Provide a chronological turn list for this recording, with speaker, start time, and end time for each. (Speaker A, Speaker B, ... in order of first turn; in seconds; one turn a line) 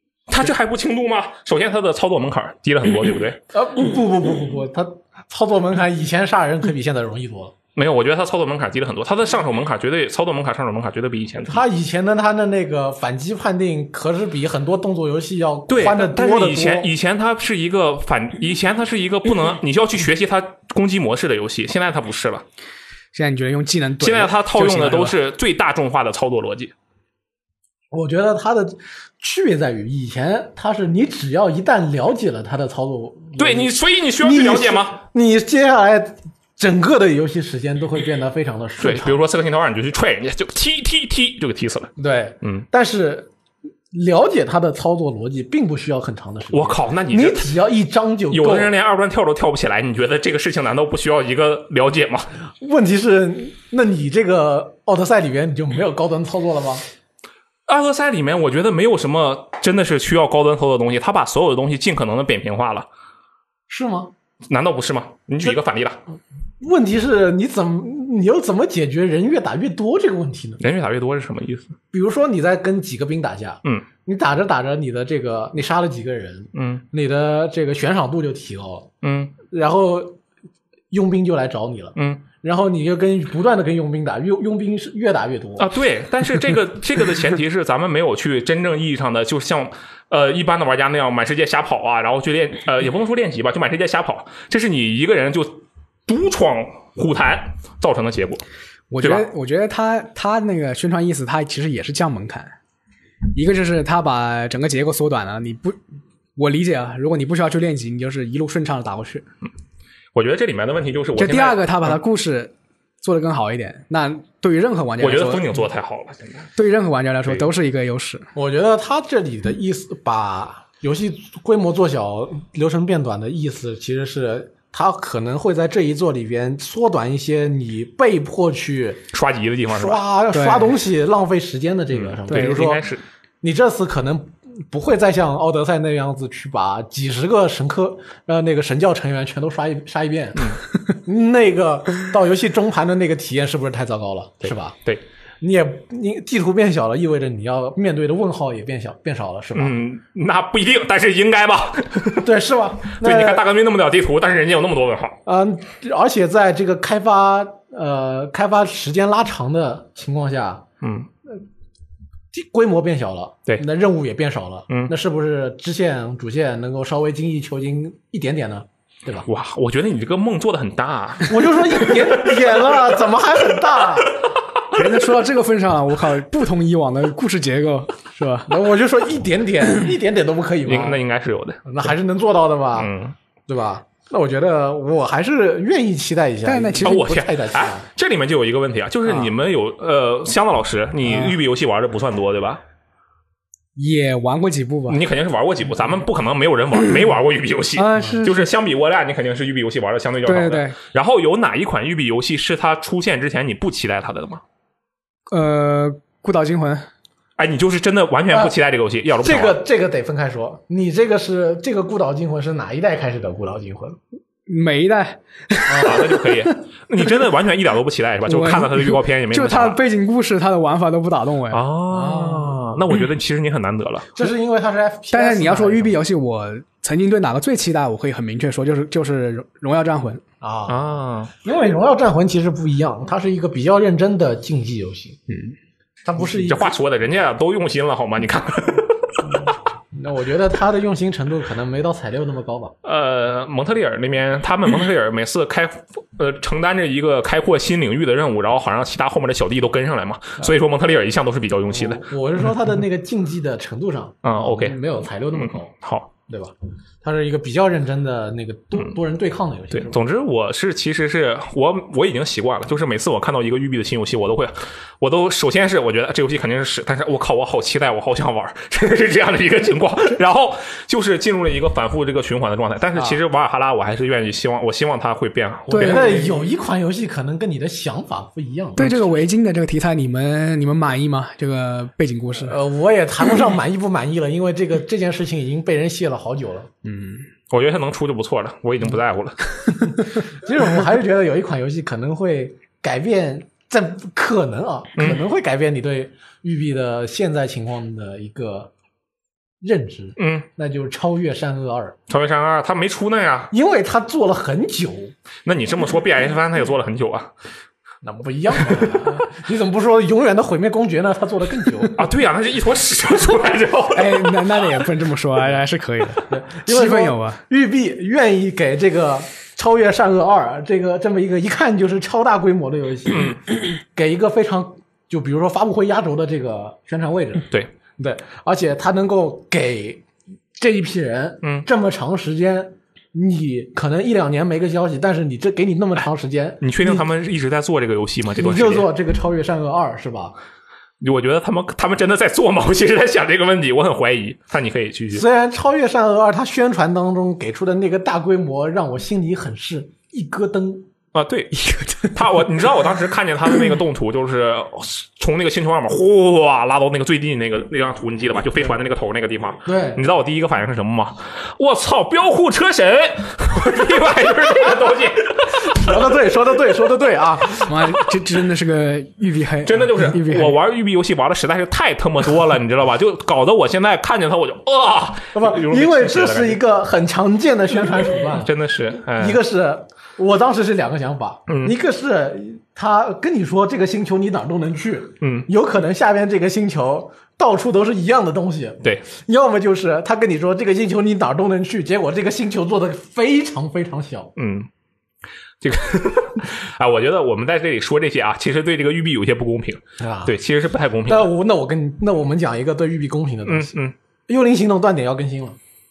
Speaker A: 0.3-3.4
Speaker B: 3.5-7.5
Speaker A: 7.8-11.6
Speaker B: 11.4-16.9
Speaker A: 15.7-22.4
Speaker C: 23.1-25.1
Speaker A: 24.0-26.7
Speaker B: 27.9-39.2
Speaker A: 33.4-35.0
Speaker A: 38.8-41.9
Speaker B: 42.0-43.3
Speaker B: 43.9-48.7
Speaker A: 46.5-47.5
Speaker A: 48.3-52.3
Speaker B: 52.6-56.8
Speaker A: 57.7-62.9
Speaker B: 63.7-64.1
Speaker A: 64.5-66.0
Speaker B: 66.6-70.6
Speaker A: 70.6-71.8
Speaker B: 71.9-78.9
Speaker A: 76.5-76.8
Speaker A: 79.0-79.4
Speaker B: 79.5-80.2
Speaker B: 80.9-85.7
Speaker A: 82.0-82.2
Speaker A: 85.6-98.4
Speaker C: 98.9-102.5
Speaker A: 99.0-99.3
Speaker C: 103.3-105.8
Speaker C: 106.4-109.2
Speaker A: 110.1-112.0
Speaker C: 111.2-115.6
Speaker A: 115.0-116.5
Speaker C: 116.5-118.3
Speaker B: 118.3-129.0
Speaker A: 129.1-130.0
Speaker B: 129.7-132.8
Speaker C: 130.3-130.7
Speaker A: 131.9-133.0
Speaker C: 132.3-132.6
Speaker B: 133.4-144.8
Speaker A: 144.4-145.0
Speaker B: 145.4-149.8
Speaker A: 149.5-152.3
Speaker B: 152.2-153.4
Speaker A: 152.9-155.2
Speaker B: 155.2-160.7
Speaker A: 160.8-161.1
Speaker B: 162.3-169.3
Speaker A: 169.2-172.6
Speaker B: 171.2-174.2
Speaker C: 174.7-178.6
Speaker B: 178.5-181.0
Speaker A: 180.6-181.6
Speaker B: 181.7-182.9
Speaker A: 182.8-183.1
Speaker B: 183.5-187.9
Speaker C: 186.4-187.1
Speaker A: 186.8-192.6
Speaker C: 191.1-191.3
Speaker C: 193.8-195.0
Speaker A: 194.9-204.4
Speaker C: 197.8-198.4
Speaker C: 200.2-200.8
Speaker C: 205.3-206.9
Speaker A: 207.4-209.6
Speaker B: 209.2-214.0
Speaker C: 214.5-216.5
Speaker B: 215.7-216.1
Speaker A: 215.8-219.8
Speaker C: 218.3-221.6
Speaker A: 221.5-224.2
Speaker B: 222.0-222.5
Speaker B: 224.1-226.0
Speaker C: 225.1-230.2
Speaker B: 230.4-230.8
Speaker A: 230.7-231.3
Speaker B: 231.4-235.2
Speaker C: 235.3-235.5
Speaker B: 236.0-236.7
Speaker A: 236.4-239.3
Speaker B: 239.9-242.7
Speaker A: 242.8-252.0
Speaker B: 251.7-255.7
Speaker A: 254.2-254.8
Speaker A: 255.3-256.1
Speaker B: 256.3-260.0
Speaker A: 259.7-276.3
Speaker C: 275.7-276.1
Speaker B: 275.8-279.0
Speaker C: 278.8-282.6
Speaker B: 282.4-286.7
Speaker C: 286.8-287.2
Speaker A: 287.5-289.7
Speaker B: 290.2-298.7
Speaker A: 295.0-295.2
Speaker B: 299.6-301.9
Speaker A: 300.2-300.5
Speaker A: 302.1-303.5
Speaker B: 303.5-305.1
Speaker A: 305.4-307.3
Speaker B: 308.0-312.1
Speaker A: 311.9-314.6
Speaker C: 313.9-317.4
Speaker B: 316.3-337.1
Speaker A: 323.1-323.4
Speaker A: 336.6-338.9
Speaker B: 338.3-340.4
Speaker A: 341.0-345.2
Speaker B: 345.1-350.9
Speaker A: 351.1-366.1
Speaker C: 351.7-352.1
Speaker B: 359.6-360.0
Speaker B: 365.6-367.9
Speaker C: 367.6-370.6
Speaker A: 369.6-376.6
Speaker B: 375.3-378.5
Speaker A: 378.3-379.4
Speaker B: 379.1-394.3
Speaker A: 381.5-381.7
Speaker A: 385.2-385.5
Speaker A: 394.4-394.7
Speaker A: 395.6-401.3
Speaker B: 400.0-400.3
Speaker B: 401.1-403.8
Speaker A: 403.5-403.9
Speaker B: 404.3-405.6